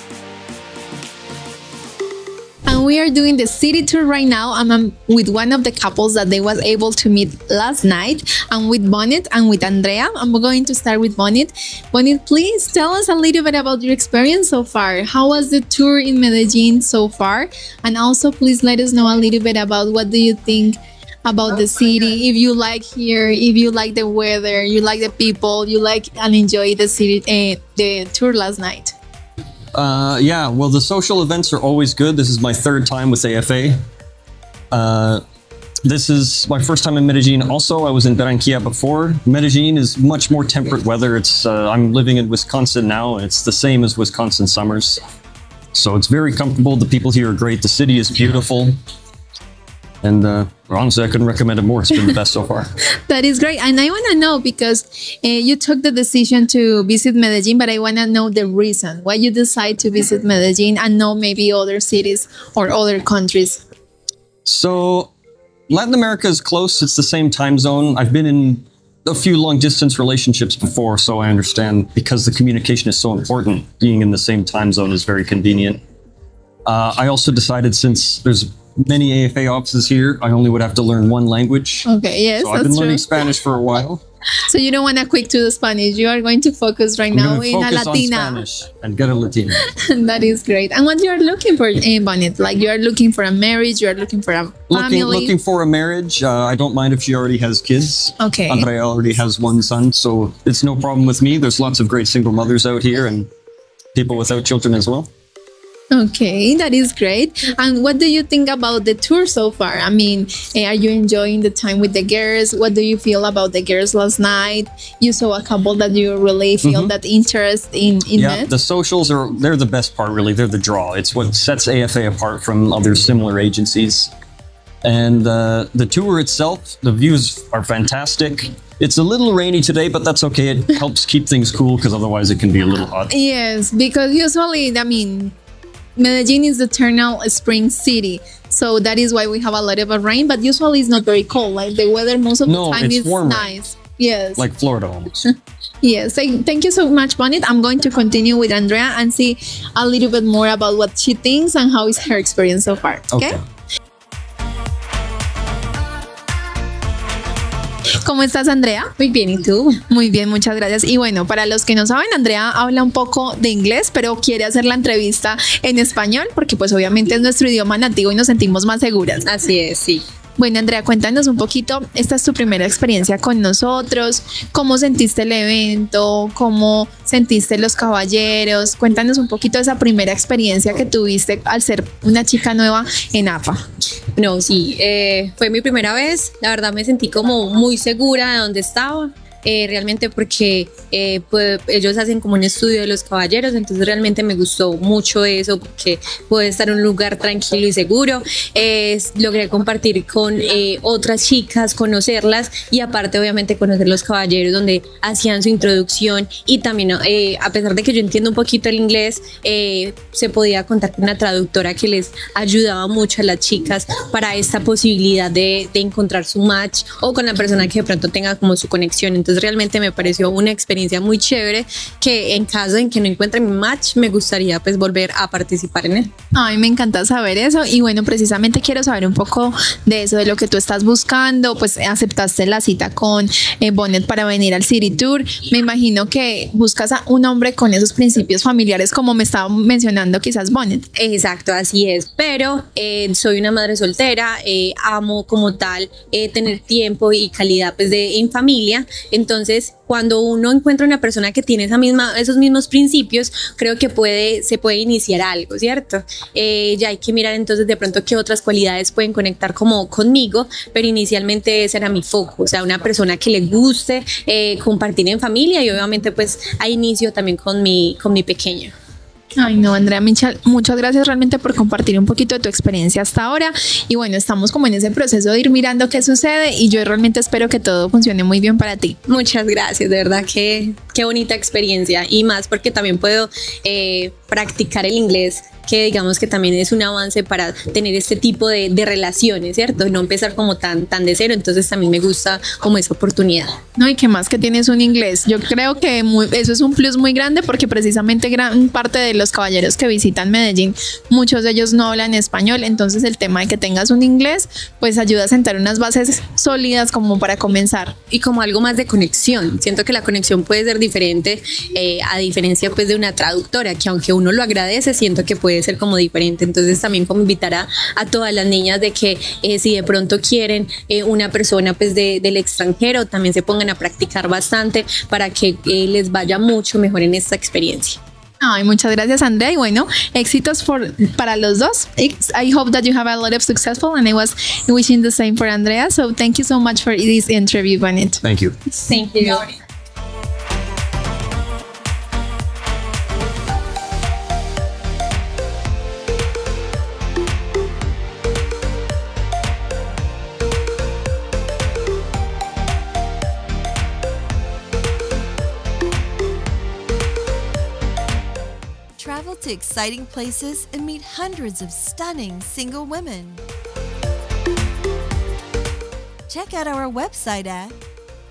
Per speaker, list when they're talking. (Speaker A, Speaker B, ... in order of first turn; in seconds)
Speaker A: 2.7-29.0, 53.1-63.6, 81.9-83.1, 84.5-88.4, 89.7-95.3, 98.2-98.7, 105.9-118.5, 133.1-135.3, 136.0-144.5, 145.8-153.4, 158.0-158.9, 159.9-169.3, 170.4-183.6, 226.3-240.8, 269.4-279.0, 293.8-308.0, 328.4-338.2
Speaker B: 29.7-33.8, 34.7-35.2, 35.9-45.0, 45.7-48.8, 50.0-52.7, 64.5-65.1, 65.7-75.8, 76.7-84.0, 87.1-89.6, 94.7-103.3, 104.0-105.1, 116.6-116.9, 118.2-124.1, 124.8-133.1, 142.4-143.5, 144.4-145.3, 153.1-153.4, 338.2-338.5
Speaker C: 159.0-159.8, 169.2-170.0, 184.2-226.1, 240.9-268.7, 279.1-293.6, 308.1-328.0, 338.8-339.5
Speaker D: 359.0-363.4, 366.3-367.8